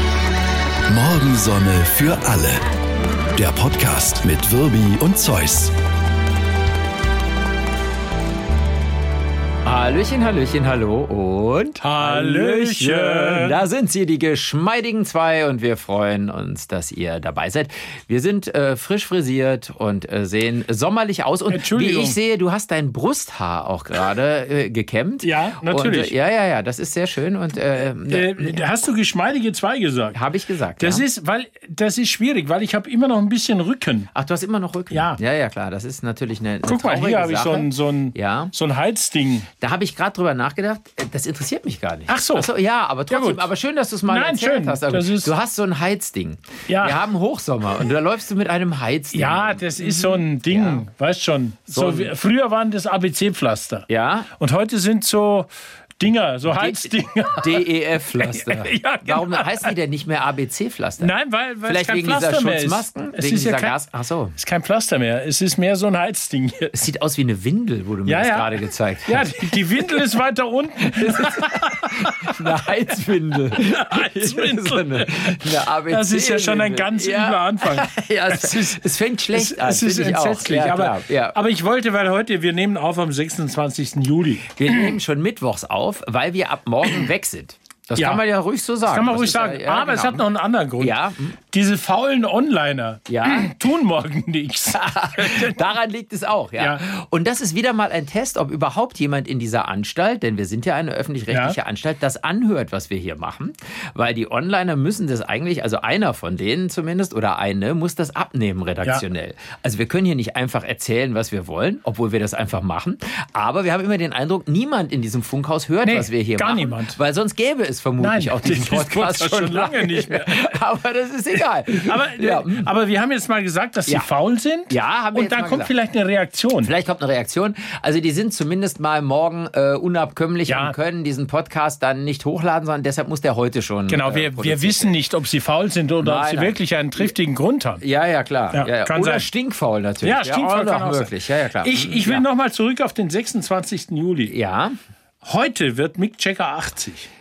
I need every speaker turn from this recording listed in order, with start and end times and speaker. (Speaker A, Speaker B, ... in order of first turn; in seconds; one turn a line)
Speaker A: 0.9-2.6
Speaker A: 3.3-5.7
Speaker B: 9.6-28.6
Speaker C: 11.8-13.6
Speaker C: 21.5-22.2
Speaker C: 25.2-26.1
Speaker C: 28.1-30.2
Speaker B: 30.1-31.0
Speaker C: 30.8-34.1
Speaker B: 34.1-38.5
Speaker C: 34.9-35.2
Speaker C: 36.6-39.5
Speaker B: 39.6-50.8
Speaker C: 42.1-42.5
Speaker C: 43.1-43.5
Speaker C: 44.1-45.3
Speaker C: 46.7-47.0
Speaker C: 49.1-53.9
Speaker B: 51.7-52.1
Speaker B: 53.9-54.3
Speaker C: 54.4-59.7
Speaker B: 56.5-61.1
Speaker C: 61.0-63.8
Speaker B: 61.6-64.3
Speaker C: 64.4-66.8
Speaker B: 66.7-69.9
Speaker C: 68.1-72.6
Speaker B: 70.8-81.4
Speaker C: 73.5-84.9
Speaker B: 84.5-90.2
Speaker C: 88.0-88.2
Speaker C: 88.8-91.0
Speaker B: 90.8-91.4
Speaker C: 91.5-95.6
Speaker B: 93.1-93.5
Speaker B: 94.7-122.7
Speaker C: 96.6-96.8
Speaker C: 101.3-101.6
Speaker C: 115.8-117.0
Speaker C: 118.0-120.4
Speaker C: 121.8-126.7
Speaker B: 124.7-125.7
Speaker B: 126.6-135.0
Speaker C: 130.5-130.8
Speaker C: 133.9-137.8
Speaker B: 136.0-137.1
Speaker B: 137.8-142.2
Speaker C: 138.5-139.3
Speaker C: 140.0-144.3
Speaker B: 144.3-144.8
Speaker C: 145.2-147.1